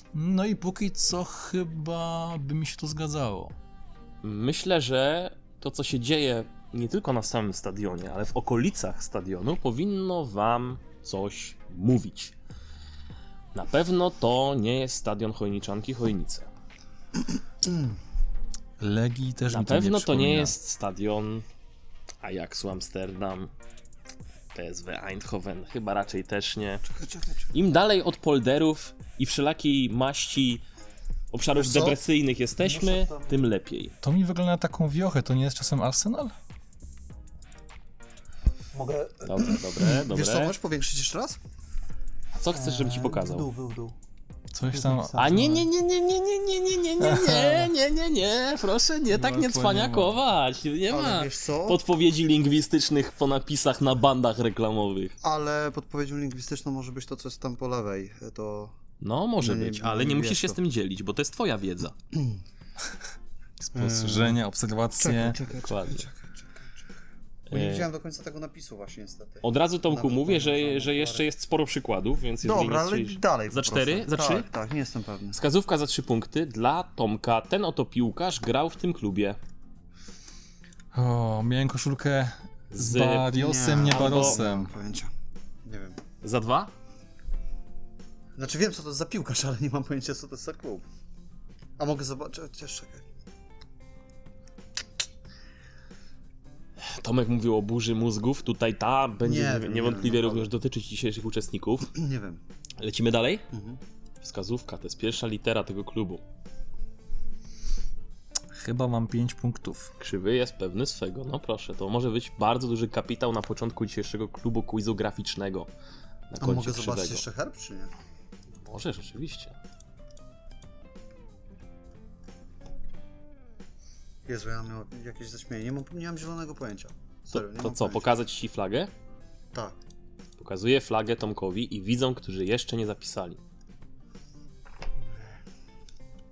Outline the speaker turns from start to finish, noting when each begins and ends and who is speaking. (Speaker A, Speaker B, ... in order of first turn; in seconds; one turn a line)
Speaker A: 0.1-3.5
Speaker B: 4.2-12.3
Speaker B: 13.5-16.5
Speaker A: 18.8-20.5
Speaker B: 19.5-21.5
Speaker B: 22.2-23.5
Speaker B: 24.5-26.8
Speaker C: 26.8-27.5
Speaker B: 27.5-30.6
Speaker B: 31.3-34.0
Speaker C: 31.6-32.0
Speaker C: 32.6-33.5
Speaker A: 34.0-36.3
Speaker C: 38.7-41.4
Speaker B: 39.2-40.5
Speaker B: 42.4-43.5
Speaker C: 42.5-44.0
Speaker A: 44.5-45.7
Speaker C: 44.7-45.5
Speaker B: 45.2-55.2
Speaker A: 47.0-47.7
Speaker A: 49.1-50.2
Speaker C: 50.9-51.8
Speaker C: 55.2-58.8
Speaker B: 59.0-62.0
Speaker C: 59.4-60.6
Speaker C: 62.1-62.4
Speaker A: 63.6-65.4
Speaker C: 63.7-64.4
Speaker C: 65.0-66.9
Speaker B: 65.6-66.1
Speaker B: 67.5-67.9
Speaker C: 67.5-71.3
Speaker B: 69.4-74.5
Speaker C: 72.4-75.4
Speaker B: 75.3-79.4
Speaker A: 80.9-84.7
Speaker B: 82.7-83.3
Speaker C: 83.3-85.1
Speaker B: 83.9-84.4
Speaker C: 85.6-86.0
Speaker B: 86.2-86.7
Speaker C: 88.4-90.8
Speaker C: 91.8-93.0
Speaker B: 96.8-101.9
Speaker C: 99.2-100.5
Speaker C: 101.9-102.4
Speaker B: 102.8-103.5
Speaker C: 103.5-103.8
Speaker B: 104.2-106.2
Speaker A: 108.5-109.9
Speaker B: 110.0-115.7
Speaker B: 116.3-117.2
Speaker C: 116.4-117.9
Speaker B: 118.6-119.6
Speaker C: 124.2-128.1
Speaker B: 127.3-128.9
Speaker B: 130.4-133.4